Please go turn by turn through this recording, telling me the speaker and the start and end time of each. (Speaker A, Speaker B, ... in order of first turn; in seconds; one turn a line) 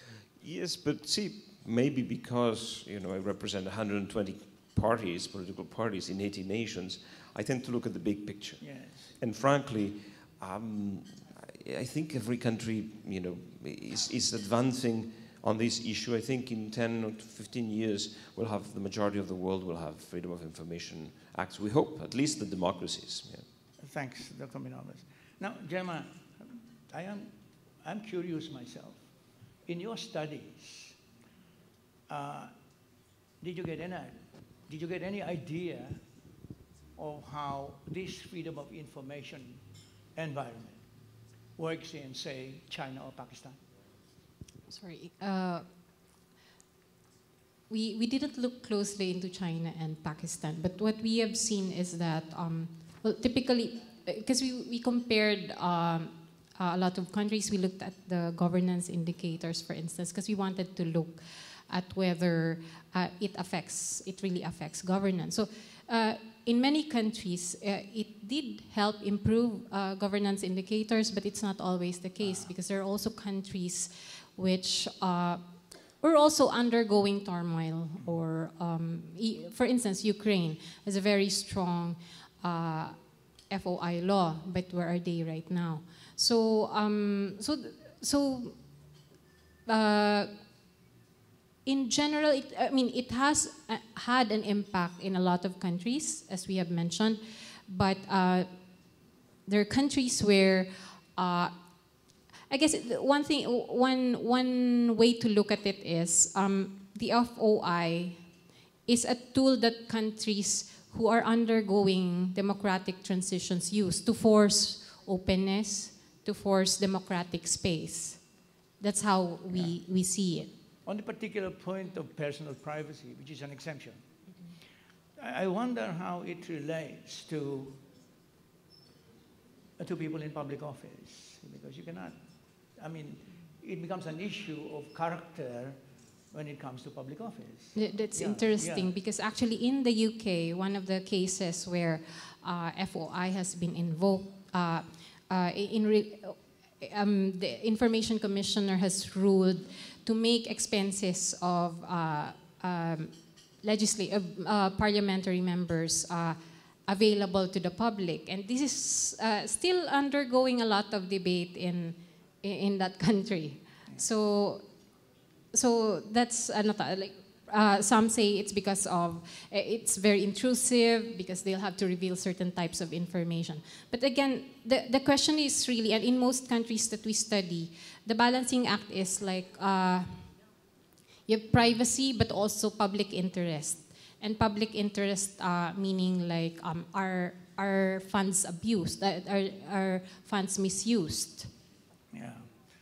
Speaker A: 0.4-23.5
Speaker B: 8.6-9.1
Speaker B: 23.8-29.1
Speaker B: 29.6-31.0
Speaker B: 32.1-32.5
Speaker B: 33.4-36.0
Speaker B: 37.0-40.8
Speaker B: 41.6-43.6
Speaker C: 44.7-45.7
Speaker C: 47.7-83.0
Speaker B: 72.2-72.5
Speaker C: 83.5-88.6
Speaker C: 89.7-90.3
Speaker C: 91.7-98.5
Speaker C: 99.5-101.5
Speaker C: 102.5-108.2
Speaker C: 108.9-120.5
Speaker B: 120.8-124.0
Speaker B: 125.2-127.8
Speaker B: 129.8-132.2
Speaker B: 132.8-138.9
Speaker C: 137.8-164.7
Speaker C: 165.5-180.3
Speaker C: 181.3-191.5
Speaker B: 192.1-192.5